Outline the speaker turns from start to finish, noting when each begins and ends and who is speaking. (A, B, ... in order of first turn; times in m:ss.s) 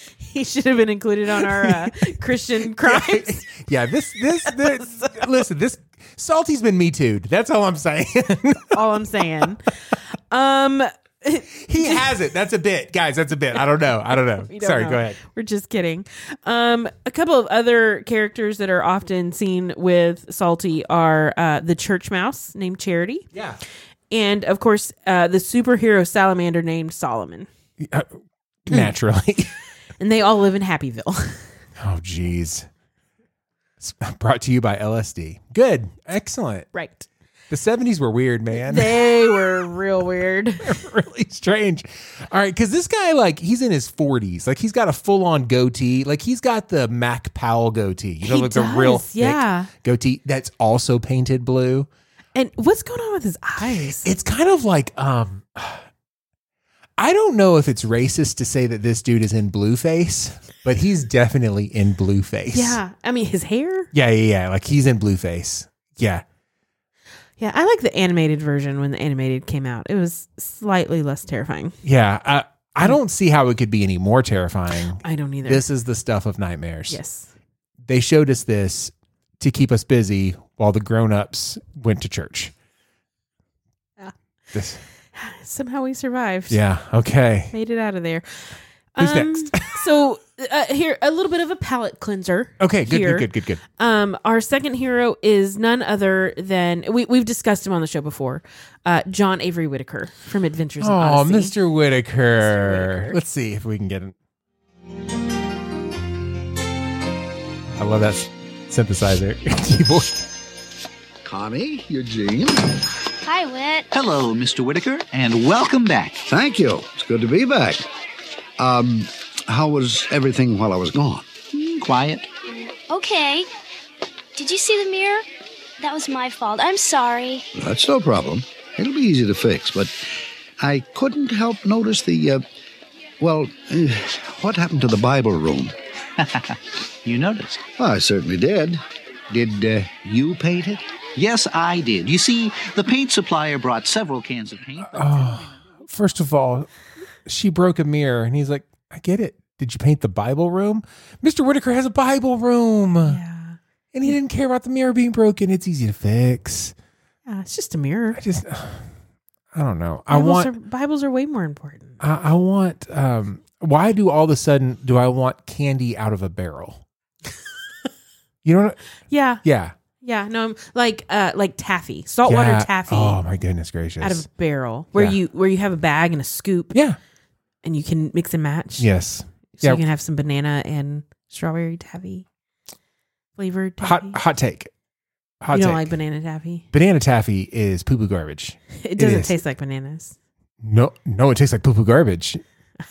0:00.2-0:03.5 A
0:01.4-0:02.0 B
0:02.8-0:08.8 B
0:04.4-0:05.2 A
0:08.7-0:12.1 A
0:11.6-0:15.2 B
0:14.2-0:23.2 A
0:23.3-0:23.6 B
0:24.1-0:27.5 A
0:27.8-0:28.1 B
0:28.7-0:29.5 B
0:30.0-0:31.4 A
0:31.8-0:32.7 B
0:33.8-0:36.7 B
0:36.7-0:37.1 A
0:37.5-0:38.9 B
0:38.5-0:40.8 A
0:40.6-0:51.9 B
0:48.2-0:49.7 A
0:52.3-0:54.1 A
0:54.0-0:55.8 B
0:57.0-1:02.8 B
1:02.5-1:03.9 A
1:03.9-1:06.2 B
1:07.4-1:11.8 A
1:11.8-1:17.0 B
1:15.0-1:15.6 A
1:16.9-1:17.3 A
1:17.9-1:22.5 B
1:24.5-1:24.8 B
1:25.1-1:26.6 A
1:26.5-1:27.5 B
1:27.5-1:41.6 A
1:29.0-1:29.8 B
1:32.6-1:33.6 B
1:40.8-1:44.1 B
1:42.4-1:43.2 A
1:47.8-1:50.2 B
1:51.2-1:52.8 C
1:53.2-1:53.9 D
1:53.9-1:56.2 E
1:56.2-1:57.8 C
1:58.6-2:01.3 C
2:01.5-2:02.3 E
2:02.9-2:03.5 D
2:04.4-2:05.2 D
2:05.8-2:07.4 D
2:07.5-2:10.1 C
2:10.6-2:12.4 C
2:13.2-2:15.7 C
2:17.0-2:17.6 E
2:17.6-2:20.8 C
2:21.2-2:25.1 E
2:24.9-2:26.7 B
2:27.2-2:33.2 B
2:33.0-2:33.6 A
2:33.9-2:36.7 B
2:37.3-2:38.2 A
2:38.1-2:38.9 B
2:39.5-2:40.5 B
2:40.1-2:42.0 A
2:42.0-2:46.8 B
2:48.4-2:48.8 B
2:49.1-2:49.4 A
2:49.4-2:49.7 B
2:50.0-2:53.2 A
2:52.2-2:54.2 B
2:54.0-2:56.8 A
2:57.6-2:58.9 A
2:58.8-2:59.8 B
2:59.6-3:02.2 A
3:03.4-3:04.2 A
3:03.8-3:04.7 B
3:05.4-3:05.9 B
3:05.5-3:06.6 A
3:06.7-3:09.3 B
3:08.8-3:10.1 A
3:10.6-3:12.4 B